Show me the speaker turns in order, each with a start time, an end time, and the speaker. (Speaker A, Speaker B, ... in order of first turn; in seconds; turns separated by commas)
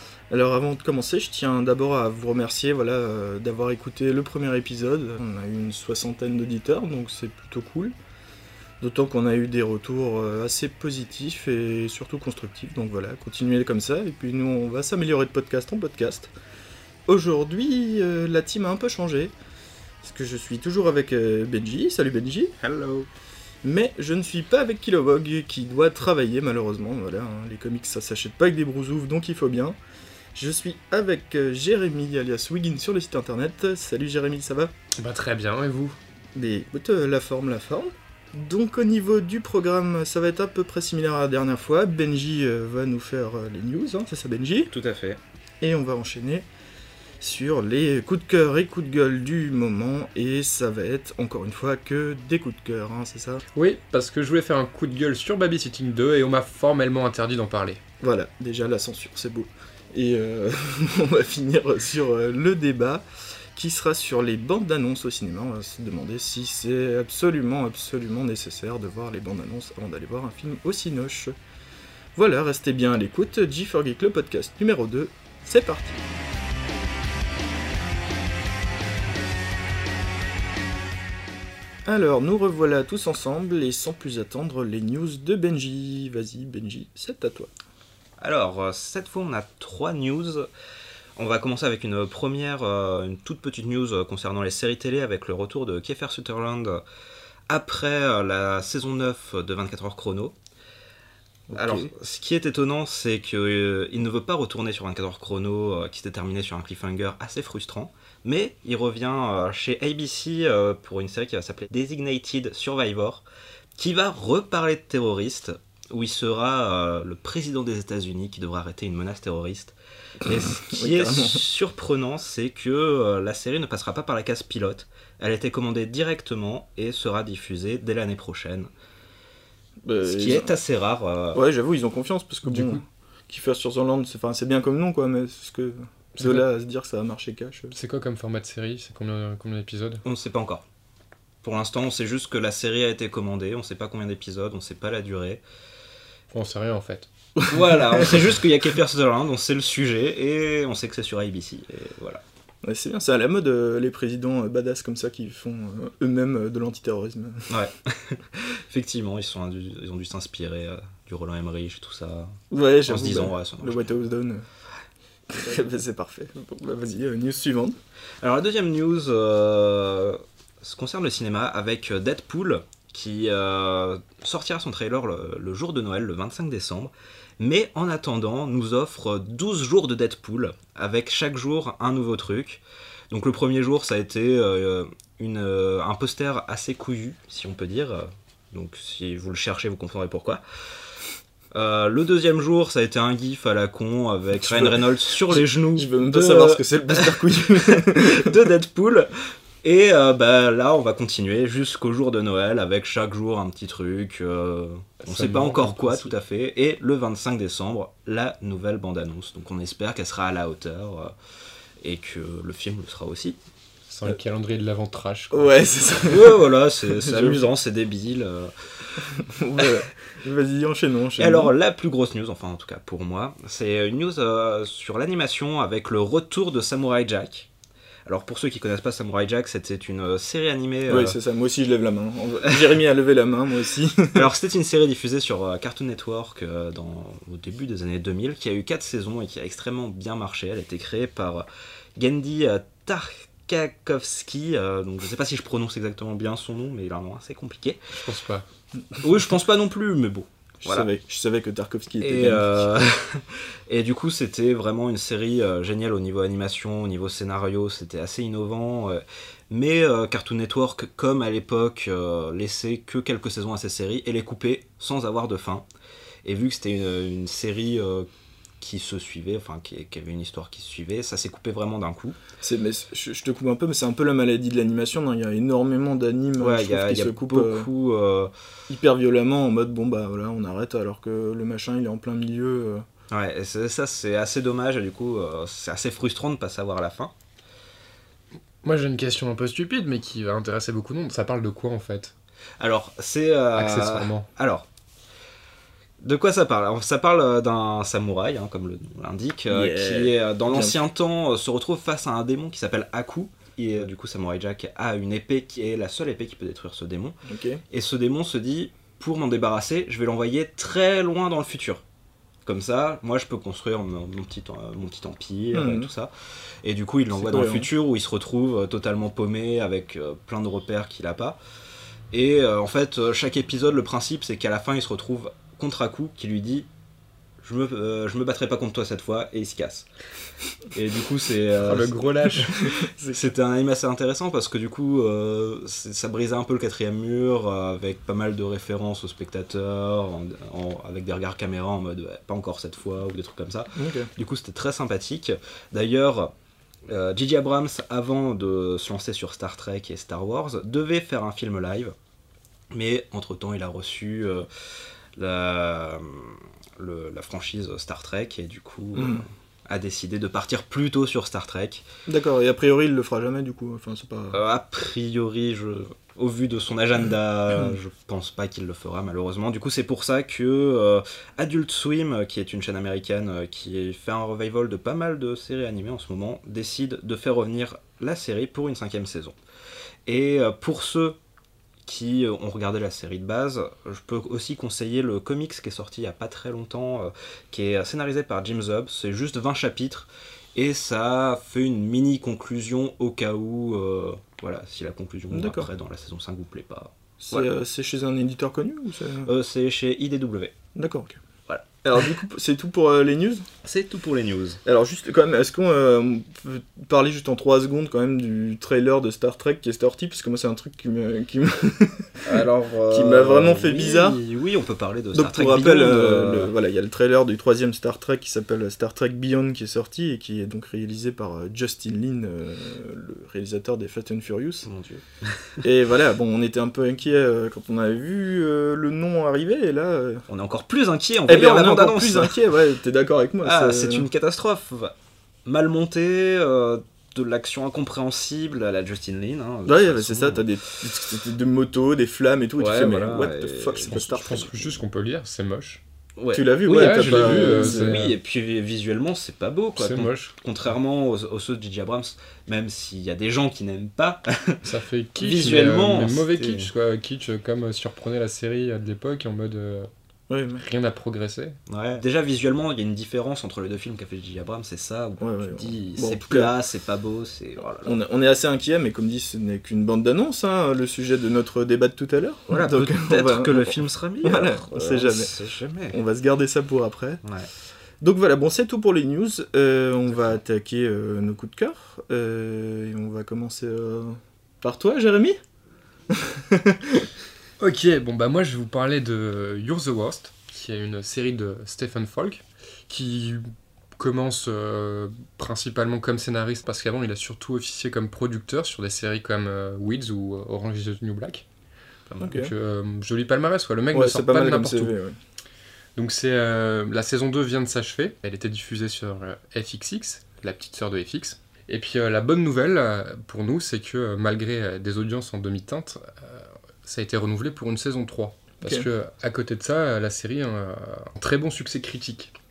Speaker A: 0.3-7.9, Speaker A: 8.8-16.3, Speaker A: 17.1-19.3, Speaker A: 20.0-22.5, Speaker B: 22.6-23.1, Speaker A: 23.6-29.8, Speaker A: 30.3-34.7, Speaker C: 34.9-36.0, Speaker A: 36.3-44.7, Speaker B: 44.7-45.2, Speaker A: 45.6-46.4, Speaker A: 47.2-53.4, Speaker C: 53.5-57.8, Speaker A: 58.0-71.3, Speaker A: 72.2-76.0, Speaker A: 81.9-87.5, Speaker B: 88.2-90.5, Speaker B: 91.2-96.8, Speaker B: 97.5-100.4, Speaker A: 101.5-101.9, Speaker B: 101.5-113.2, Speaker B: 113.8-128.7, Speaker A: 120.3-121.4, Speaker A: 129.8-130.5, Speaker B: 130.0-131.4, Speaker A: 131.3-137.7, Speaker C: 132.4-132.8, Speaker C: 136.2-136.5, Speaker C: 137.7-140.0, Speaker B: 140.0-140.6, Speaker B: 141.4-145.4, Speaker C: 146.3-147.1, Speaker A: 147.4-148.3, Speaker B: 147.5-152.2, Speaker A: 152.6-157.5, Speaker B: 157.5-164.0, Speaker A: 162.5-164.4, Speaker A: 165.3-167.8, Speaker B: 168.2-190.4, Speaker B: 191.5-211.1, Speaker A: 194.4-198.4, Speaker C: 205.1-206.0, Speaker B: 211.8-213.4, Speaker C: 213.9-215.7, Speaker A: 215.3-216.4, Speaker B: 216.0-219.0, Speaker A: 216.9-217.4, Speaker A: 219.1-221.5, Speaker B: 221.2-227.5, Speaker B: 228.1-231.2, Speaker A: 230.9-234.2, Speaker B: 234.1-247.8, Speaker C: 247.9-248.4, Speaker B: 249.0-250.9, Speaker A: 250.6-252.7, Speaker B: 252.0-265.6, Speaker B: 266.2-268.1, Speaker B: 268.6-272.2, Speaker A: 272.4-277.7, Speaker B: 276.4-278.3, Speaker A: 278.7-282.8, Speaker B: 283.1-287.1, Speaker C: 288.6-292.1, Speaker B: 292.6-294.7, Speaker C: 293.5-294.2, Speaker B: 296.0-307.2, Speaker A: 299.5-300.8, Speaker A: 307.2-307.6, Speaker B: 307.7-311.8, Speaker B: 312.4-316.1, Speaker A: 315.5-315.9, Speaker B: 316.6-321.4, Speaker A: 317.1-317.7, Speaker B: 322.1-326.7, Speaker B: 327.4-329.9, Speaker B: 330.7-332.0, Speaker C: 331.6-332.5, Speaker A: 332.4-333.3, Speaker B: 333.1-346.3, Speaker A: 343.8-344.1, Speaker B: 346.9-351.9, Speaker B: 352.7-354.5, Speaker B: 355.1-361.9, Speaker A: 358.9-359.2, Speaker A: 362.1-364.4, Speaker B: 364.3-379.4, Speaker B: 380.1-381.2, Speaker B: 381.8-397.5, Speaker A: 395.3-395.7, Speaker A: 397.2-399.3, Speaker B: 399.2-400.5, Speaker A: 400.7-401.2, Speaker B: 401.5-402.1, Speaker A: 401.8-403.5, Speaker B: 403.6-404.6, Speaker A: 404.6-414.2, Speaker B: 412.2-416.5, Speaker A: 415.1-424.7, Speaker B: 424.6-425.6, Speaker A: 425.6-430.2, Speaker B: 430.3-432.4, Speaker A: 431.3-434.1, Speaker B: 433.4-440.4, Speaker A: 439.6-444.8, Speaker B: 442.6-444.0, Speaker C: 443.9-445.8, Speaker B: 446.2-454.6, Speaker A: 446.3-448.0, Speaker C: 446.7-448.1, Speaker C: 449.8-450.3, Speaker C: 454.6-459.9, Speaker B: 455.2-456.7, Speaker A: 460.3-460.6, Speaker C: 460.6-461.6, Speaker B: 461.7-468.0, Speaker A: 465.2-466.5, Speaker A: 467.8-475.3, Speaker B: 472.5-476.0, Speaker A: 475.9-477.2, Speaker A: 478.0-485.4, Speaker A: 486.1-487.1, Speaker C: 487.6-501.4, Speaker C: 502.1-504.9, Speaker A: 502.2-502.5, Speaker A: 503.9-505.1, Speaker C: 505.9-522.3